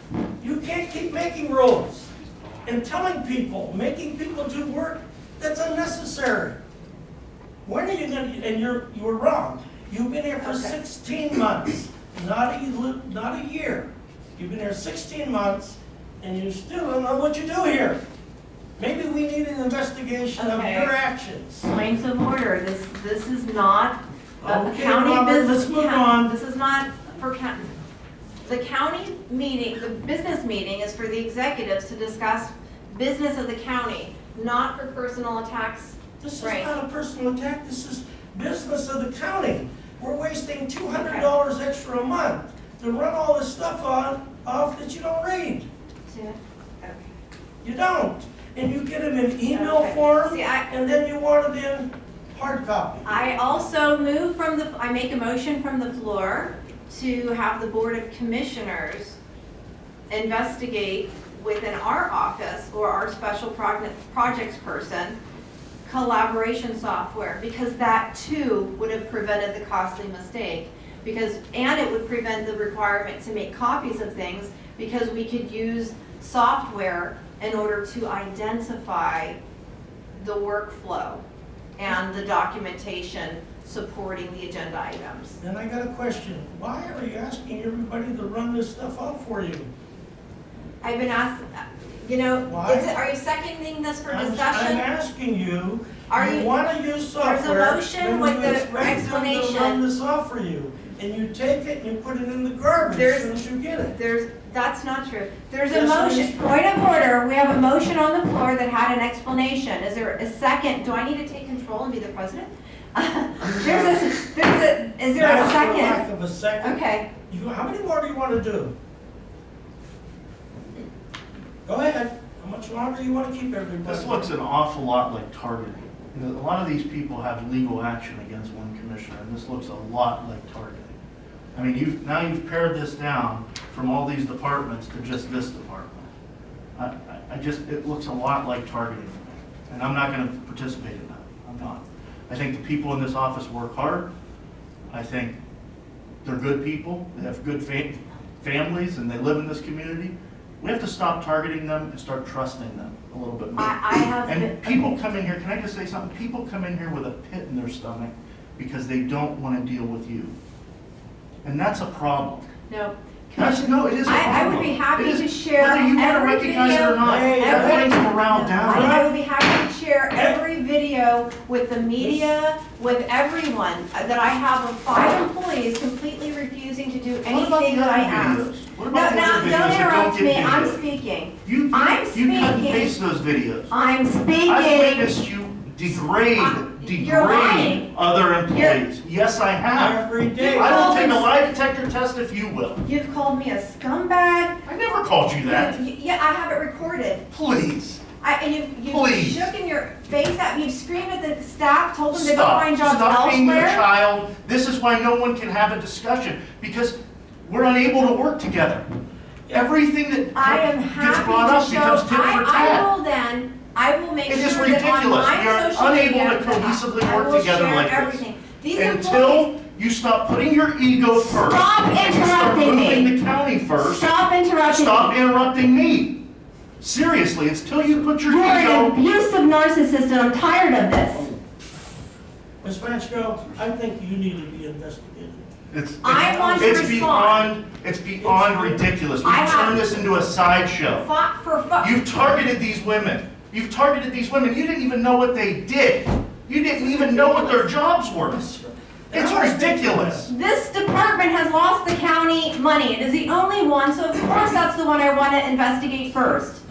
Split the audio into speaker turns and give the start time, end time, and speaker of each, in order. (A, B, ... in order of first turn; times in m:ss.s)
0:00.4-0:02.1 A
0:02.6-0:06.6 A
0:07.6-0:18.0 A
0:10.4-0:10.7 B
0:18.8-0:21.7 A
0:20.4-0:20.9 B
0:21.7-0:27.8 B
0:24.4-0:26.3 A
0:28.4-0:36.7 B
0:36.2-0:45.7 A
0:40.9-0:41.2 B
0:46.1-0:47.1 B
0:47.6-0:53.1 A
0:49.5-0:50.7 B
0:53.0-0:59.2 B
1:00.1-1:05.2 B
1:05.8-1:19.4 B
1:20.2-1:21.2 B
1:21.8-1:25.4 B
1:25.4-1:29.7 A
1:30.8-1:34.8 B
1:32.4-1:32.9 A
1:34.1-1:43.9 A
1:36.1-1:36.5 B
1:37.2-1:39.8 B
1:42.8-1:56.0 B
1:45.7-1:46.3 A
1:53.4-1:54.0 A
1:55.2-1:58.7 A
1:56.6-1:57.1 B
2:01.6-2:04.3 A
2:03.8-2:11.0 C
2:11.5-2:16.1 C
2:16.7-2:24.1 C
2:24.9-2:25.4 C
2:26.2-2:40.3 C
2:33.6-2:34.9 B
2:41.4-2:42.5 C
2:42.7-3:03.0 B
2:43.4-2:49.0 C
2:47.0-2:47.9 A
2:48.6-2:49.1 A
2:50.1-2:50.4 A
2:52.0-2:52.3 A
2:57.3-3:00.8 C
3:01.4-3:03.7 C
3:03.7-3:05.1 B
3:04.4-3:12.8 C
3:06.4-3:07.9 B
3:08.5-3:08.8 B
3:09.7-3:11.1 A
3:10.4-3:11.3 B
3:12.8-3:14.6 B
3:14.6-3:15.8 C
3:15.4-3:17.2 B
3:17.3-3:18.0 C
3:18.2-3:23.8 B
3:18.9-3:19.5 C
3:22.1-3:28.9 C
3:29.5-3:32.9 C
3:30.3-3:39.5 B
3:34.2-3:38.2 C
3:38.7-3:44.0 C
3:41.3-3:43.1 B
3:43.7-3:45.2 B
3:44.6-3:46.2 C
3:46.8-3:48.9 C
3:48.2-3:51.3 B
3:52.6-3:55.4 A
3:55.7-4:01.1 C
3:56.0-3:57.5 B
3:56.4-3:56.6 A
3:58.2-3:58.8 A
3:59.2-3:59.8 B
4:01.0-4:02.0 B
4:01.8-4:08.4 C
4:06.7-4:07.7 B
4:08.2-4:10.3 A
4:09.1-4:10.3 C
4:10.3-4:16.6 B